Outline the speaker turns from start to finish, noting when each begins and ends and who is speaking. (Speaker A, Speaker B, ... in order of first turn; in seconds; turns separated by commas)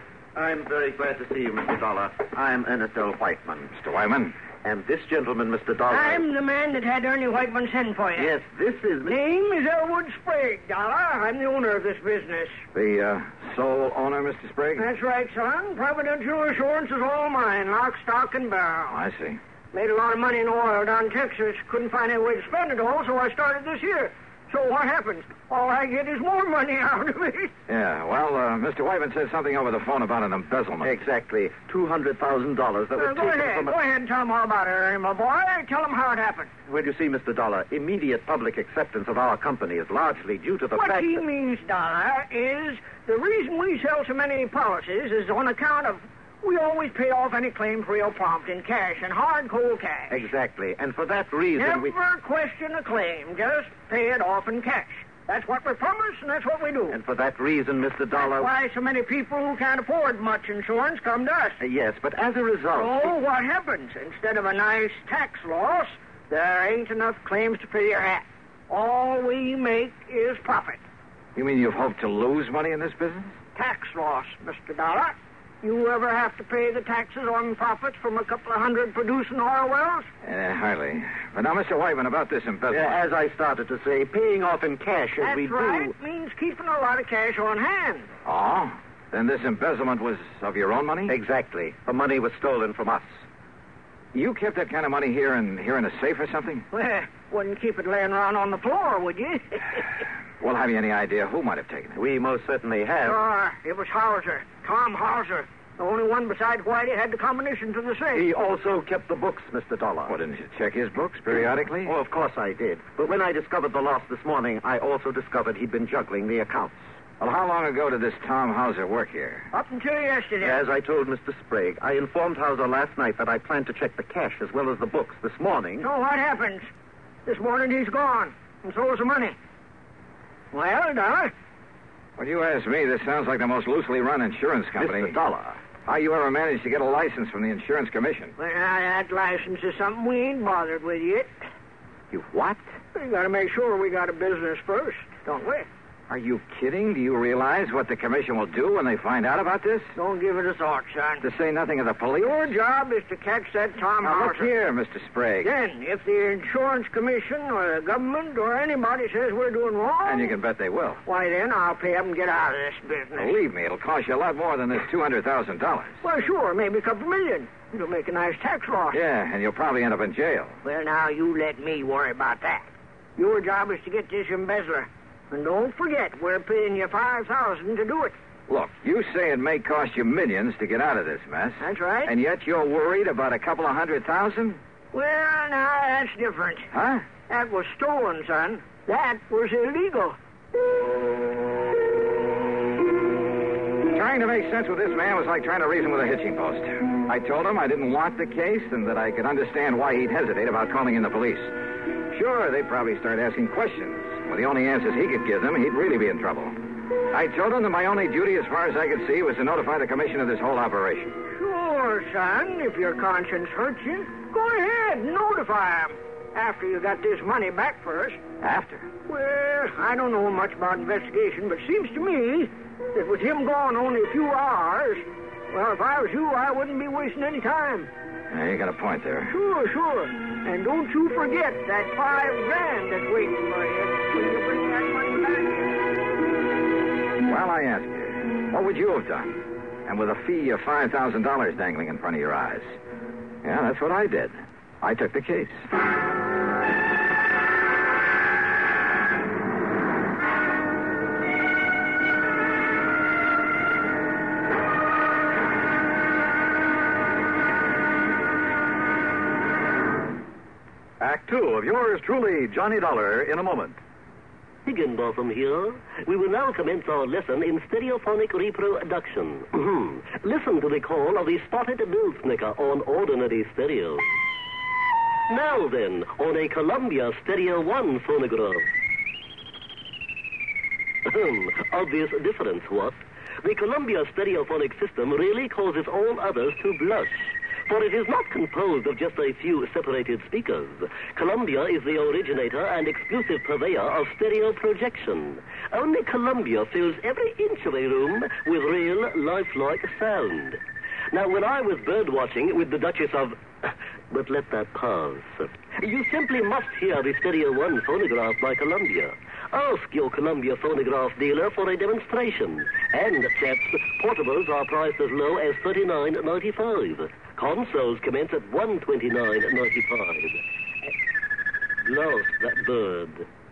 Speaker A: 0.3-3.7, Speaker B: 3.8-4.3, Speaker A: 4.6-6.2, Speaker C: 5.9-8.3, Speaker A: 8.2-9.1, Speaker C: 9.0-12.6, Speaker B: 12.7-14.8, Speaker C: 14.8-19.0, Speaker B: 18.9-19.4, Speaker C: 19.7-27.5, Speaker B: 27.7-30.9, Speaker A: 30.8-33.8, Speaker C: 33.0-36.5, Speaker A: 36.7-41.2, Speaker C: 40.7-50.2, Speaker A: 50.1-51.9, Speaker C: 51.5-57.0, Speaker A: 56.9-58.5, Speaker C: 58.1-61.6, Speaker A: 61.6-63.1, Speaker C: 62.7-70.8, Speaker B: 71.3-73.4, Speaker C: 73.5-80.1, Speaker B: 80.2-83.0, Speaker A: 82.7-85.9, Speaker C: 85.2-88.1, Speaker B: 88.2-91.2, Speaker A: 91.1-93.1, Speaker B: 94.1-96.7, Speaker C: 96.7-99.8, Speaker B: 100.4-102.0, Speaker A: 102.0-103.2, Speaker C: 103.0-108.3, Speaker A: 108.1-110.1, Speaker B: 110.1-111.9, Speaker A: 111.8-116.8, Speaker B: 117.2-119.5, Speaker C: 119.5-120.6, Speaker A: 120.4-125.9, Speaker C: 125.8-126.7, Speaker C: 127.2-129.4, Speaker C: 130.5-131.3, Speaker B: 132.2-135.2, Speaker A: 134.8-135.6, Speaker B: 135.8-138.3, Speaker C: 138.4-141.3, Speaker B: 142.1-142.6, Speaker C: 142.9-145.7, Speaker B: 146.1-149.9, Speaker C: 149.9-151.2, Speaker B: 151.2-152.5, Speaker C: 152.2-154.5, Speaker B: 154.0-155.5, Speaker C: 155.4-160.3, Speaker B: 160.0-161.0, Speaker C: 161.1-163.3, Speaker B: 163.2-166.0, Speaker C: 166.0-169.0, Speaker B: 168.9-170.6, Speaker C: 170.6-178.1, Speaker B: 178.5-184.6, Speaker C: 181.6-182.1, Speaker C: 184.9-186.7, Speaker B: 186.7-187.1, Speaker C: 187.3-190.2, Speaker B: 193.9-201.5, Speaker B: 202.1-206.6, Speaker B: 207.1-211.1, Speaker C: 211.3-218.2, Speaker B: 218.4-218.9, Speaker C: 219.1-227.9, Speaker B: 228.3-229.3, Speaker C: 229.3-235.8, Speaker B: 237.2-242.8, Speaker B: 243.4-245.7, Speaker D: 261.0-263.8, Speaker E: 264.6-274.1, Speaker E: 275.3-278.7, Speaker E: 281.0-300.6, Speaker E: 301.1-320.4, Speaker E: 321.8-323.3